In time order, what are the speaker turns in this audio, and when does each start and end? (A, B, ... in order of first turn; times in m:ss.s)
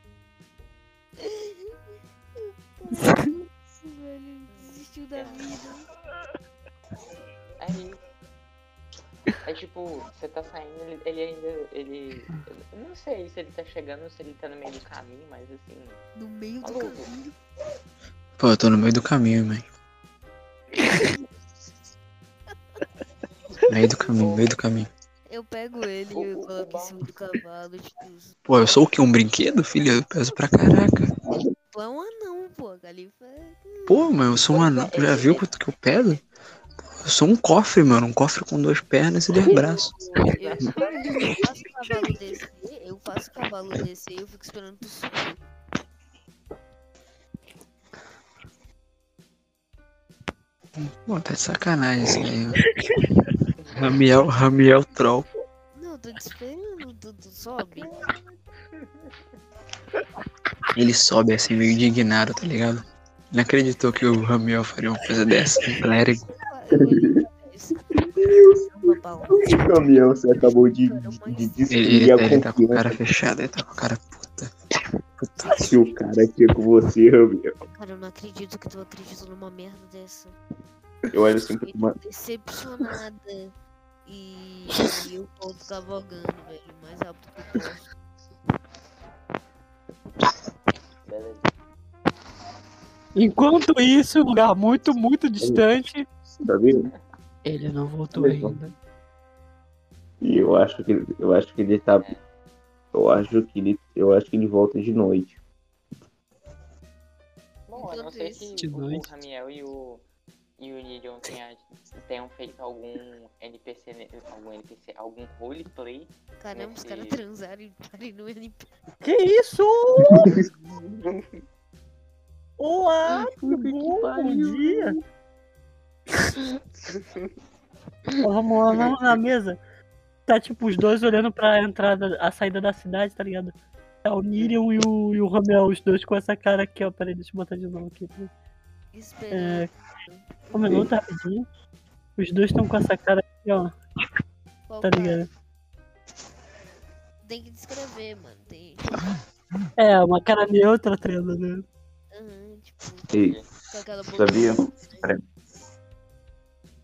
0:01.2-0:05.9 A
0:04.5-0:05.5 B
0:07.6-0:08.0 B
0:09.4-0:16.0 B
0:16.2-0:17.4 A
0:16.6-0:17.1 B
0:18.4-0:19.6 C
0:23.7-0:24.9 C
0:24.2-0:24.5 B
0:25.3-0:28.4 A
0:26.1-0:27.1 B
0:28.5-0:31.1 C
0:31.7-0:34.1 A
0:33.9-0:36.2 C
0:34.5-0:35.5 B
0:37.0-0:39.9 C
0:39.5-0:45.4 A
0:40.1-0:41.2 B
0:51.1-0:52.6 C
0:53.6-0:54.0 B
0:53.7-0:55.3 C
0:55.7-0:57.9 A
0:57.7-0:59.2 B
1:00.8-1:06.3 C
1:06.4-1:11.6 A
1:06.8-1:07.2 D
1:08.1-1:13.0 D
1:11.7-1:14.5 C
1:15.4-1:16.0 A
1:15.4-1:17.6 D
1:17.7-1:20.4 A
1:21.1-1:22.0 D
1:21.2-1:23.5 A
1:24.0-1:27.9 A
1:31.0-1:31.5 B
1:33.3-1:35.9 E
1:33.9-1:34.1 F
1:34.8-1:35.7 F
1:36.4-1:36.9 D
1:37.4-1:38.7 F
1:38.1-1:38.5 D
1:40.2-1:42.1 D
1:42.0-1:42.2 B
1:42.9-1:45.4 D
1:47.7-1:50.0 B
1:47.8-1:48.5 A
1:48.6-1:49.0 F
1:50.6-1:57.2 B
1:56.4-1:58.7 A
1:59.0-2:00.3 F
2:00.1-2:00.4 D
2:02.6-2:04.9 F
2:03.4-2:04.9 B
2:03.5-2:04.5 E
2:08.2-2:09.6 F
2:10.3-2:13.5 F
2:14.1-2:18.3 F
2:18.9-2:20.8 A
2:19.3-2:19.7 F
2:20.6-2:21.4 F
2:22.2-2:23.7 F
2:24.7-2:25.3 A
2:24.8-2:25.2 F
2:27.2-2:29.0 A
2:29.8-2:31.6 F
2:32.1-2:33.1 A
2:33.1-2:33.5 B
2:33.7-2:35.1 A
2:34.1-2:35.2 D